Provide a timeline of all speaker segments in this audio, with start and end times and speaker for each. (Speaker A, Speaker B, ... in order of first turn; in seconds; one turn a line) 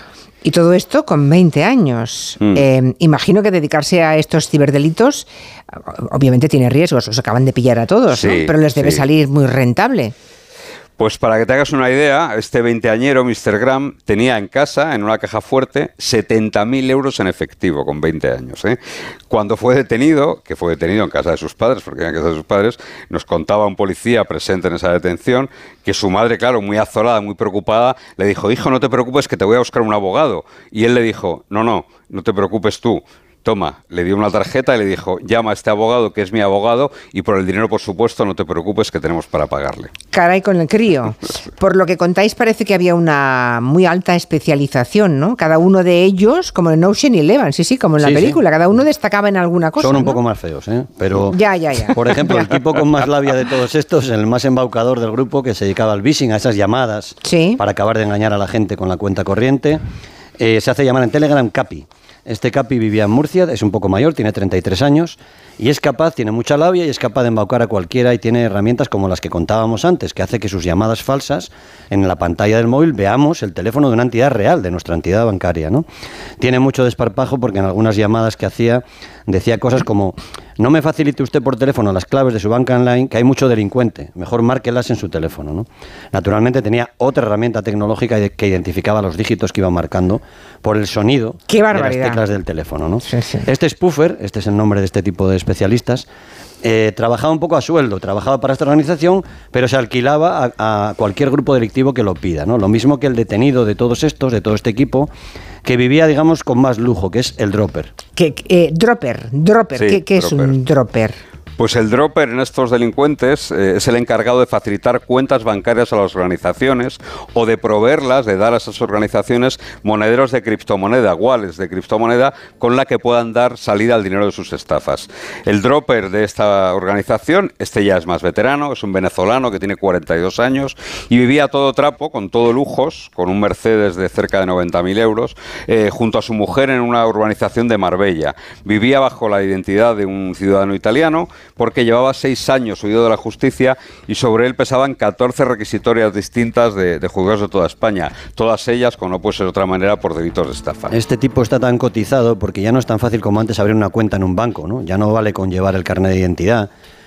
Speaker A: 0.4-10.1
Speaker B: 8.1-9.0
Speaker B: 11.0-18.8
Speaker B: 19.3-39.9
Speaker A: 40.1-50.2
Speaker C: 48.0-48.4
Speaker C: 49.8-59.8
Speaker A: 51.3-52.6
Speaker A: 57.2-57.6
Speaker C: 60.4-75.8
Speaker C: 76.4-96.0
Speaker A: 91.5-92.2
Speaker A: 93.0-93.5
Speaker C: 96.6-105.1
Speaker C: 105.6-107.9
Speaker A: 108.2-111.2
Speaker B: 109.8-110.6
Speaker B: 111.6-151.0
Speaker C: 150.9-156.7